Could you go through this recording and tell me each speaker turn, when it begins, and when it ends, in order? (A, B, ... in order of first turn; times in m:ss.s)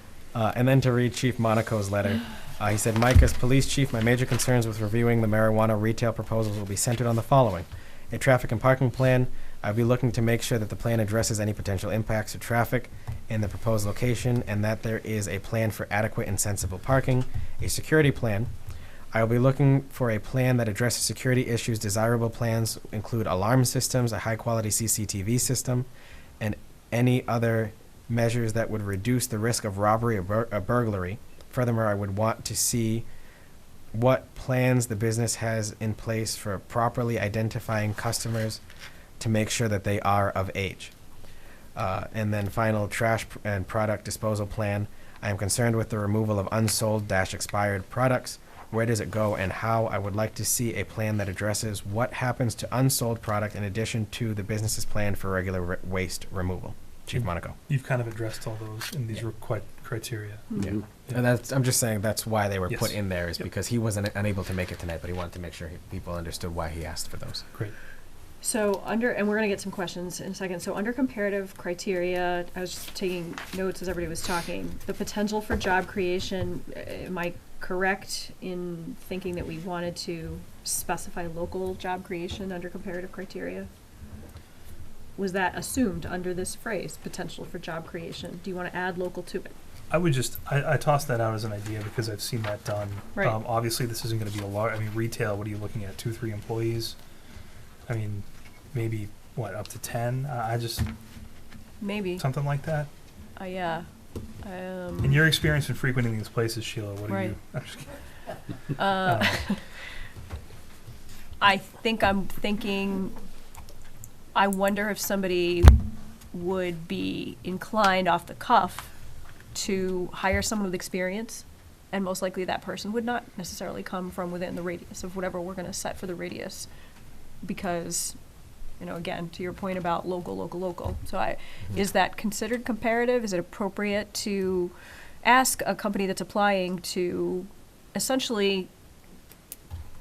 0:00.3-0:18.5 A
0:19.1-0:25.9 A
0:26.4-0:33.0 A
0:33.9-0:38.6 A
0:39.2-0:40.9 A
0:41.8-0:57.6 A
0:57.1-1:00.5 B
1:00.6-1:07.4 A
1:08.4-1:23.7 C
1:25.2-1:29.5 C
1:29.9-1:37.0 B
1:37.9-1:40.9 B
1:41.8-1:42.2 C
1:42.2-1:42.9 B
1:43.4-1:43.8 C
1:44.4-1:45.2 C
1:45.0-1:47.9 B
1:47.1-1:47.4 C
1:48.7-1:49.6 C
1:48.9-1:49.4 B
1:51.4-1:53.1 C
1:54.3-1:55.8 C
1:56.3-1:58.9 C
1:59.5-2:06.7 C
2:07.4-2:08.2 C
2:08.8-2:18.7 C